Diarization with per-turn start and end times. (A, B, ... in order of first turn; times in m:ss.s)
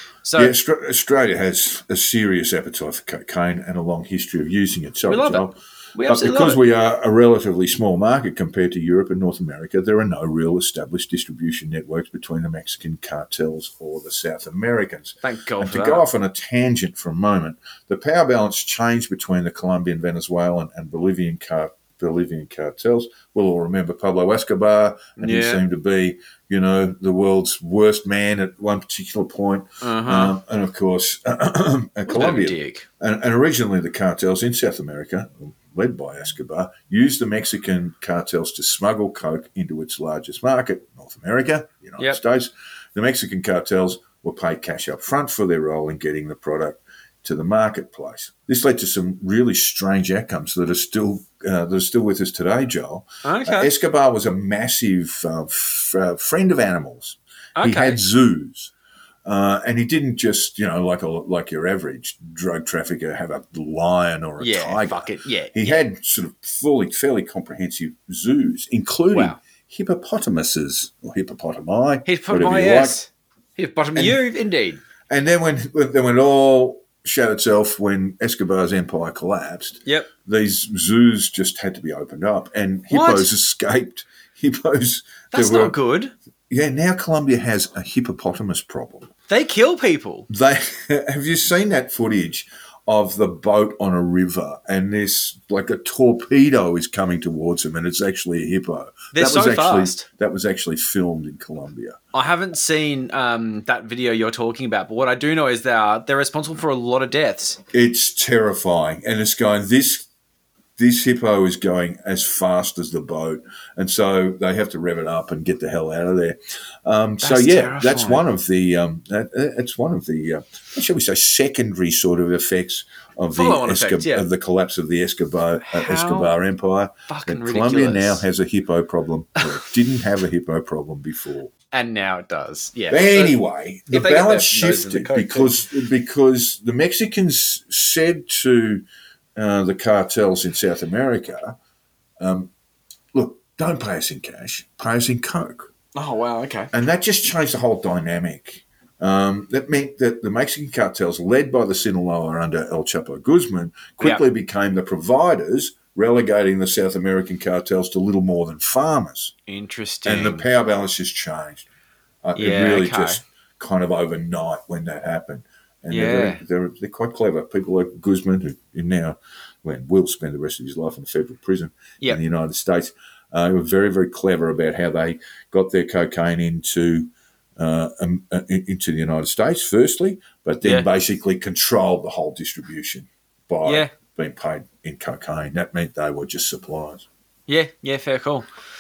0:00.2-0:00.5 A
0:00.4-0:58.7 B
0:05.1-0:06.6 A
0:15.2-0:16.1 A
0:25.2-0:25.6 A
0:29.8-0:30.4 A
0:32.1-0:32.9 A
0:53.2-0:53.7 A
0:57.6-0:58.0 A
0:59.2-1:13.0 B
1:04.4-1:05.8 A
1:09.1-1:09.4 A
1:12.1-1:14.8 A
1:15.1-1:25.8 B
1:22.9-1:23.3 A
1:25.3-1:26.1 A
1:26.5-1:29.1 B
1:29.3-1:30.3 A
1:30.3-1:42.0 B
1:39.1-1:40.1 A
1:42.1-1:47.6 A
1:47.7-1:50.1 B
1:50.8-2:11.5 B
1:57.2-1:58.2 A
2:03.4-2:04.3 A
2:05.6-2:06.3 A
2:07.1-2:08.2 A
2:11.7-2:13.4 A
2:12.9-2:18.8 B
2:13.9-2:15.5 A
2:19.4-2:21.6 B
2:22.2-2:22.5 B
2:23.1-2:25.7 B
2:26.0-2:26.7 A
2:26.7-2:39.3 B
2:34.0-2:34.2 A
2:39.5-2:40.5 A
2:40.0-2:41.7 B
2:42.2-3:07.1 B
2:42.4-2:43.2 A
2:45.9-2:46.4 A
3:03.6-3:03.9 A
3:07.5-3:08.5 A